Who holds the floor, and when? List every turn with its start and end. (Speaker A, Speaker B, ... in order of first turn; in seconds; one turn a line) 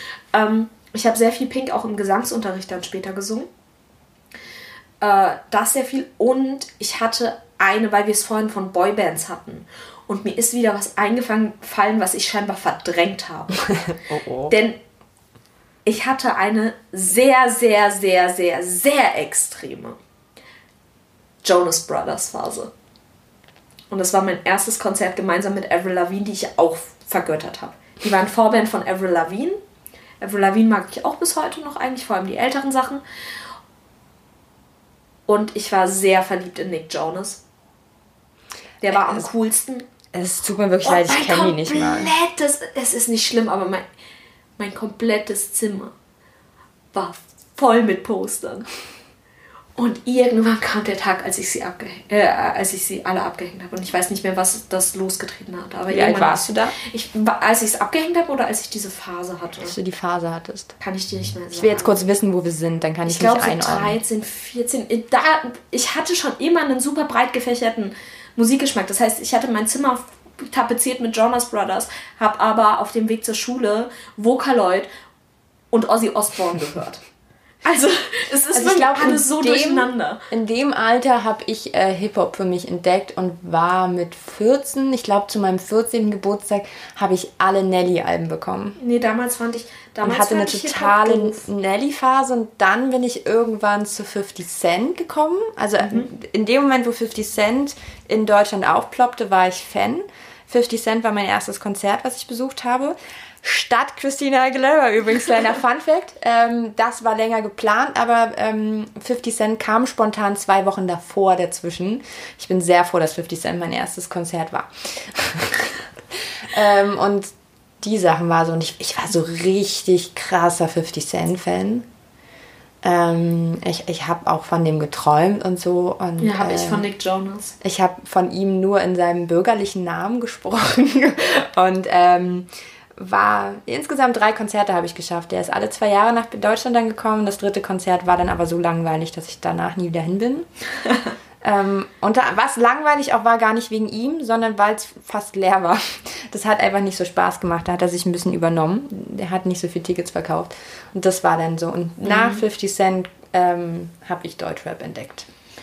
Speaker A: 0.3-3.5
Speaker A: 5.0-13.7
Speaker B: 13.9-14.5
Speaker A: 14.5-14.8
Speaker A: 15.9-20.0
Speaker A: 21.4-22.7
Speaker A: 23.9-29.6
Speaker A: 30.2-33.0
Speaker A: 35.3-37.4
Speaker A: 38.8-39.9
Speaker B: 38.9-39.2
Speaker B: 40.1-42.1
Speaker A: 40.8-43.9
Speaker A: 44.6-45.9
Speaker A: 46.9-48.7
Speaker A: 49.8-59.7
Speaker B: 55.9-56.8
Speaker B: 59.6-60.7
Speaker A: 60.8-62.0
Speaker B: 61.5-64.0
Speaker A: 63.1-74.9
Speaker A: 75.7-77.0
Speaker A: 77.6-80.2
Speaker B: 78.5-88.8
Speaker A: 88.8-91.5
Speaker B: 90.0-121.9
Speaker A: 95.8-96.1
Speaker B: 122.8-126.8
Speaker A: 126.2-127.5
Speaker B: 127.6-140.5
Speaker B: 141.4-155.3
Speaker A: 152.0-152.4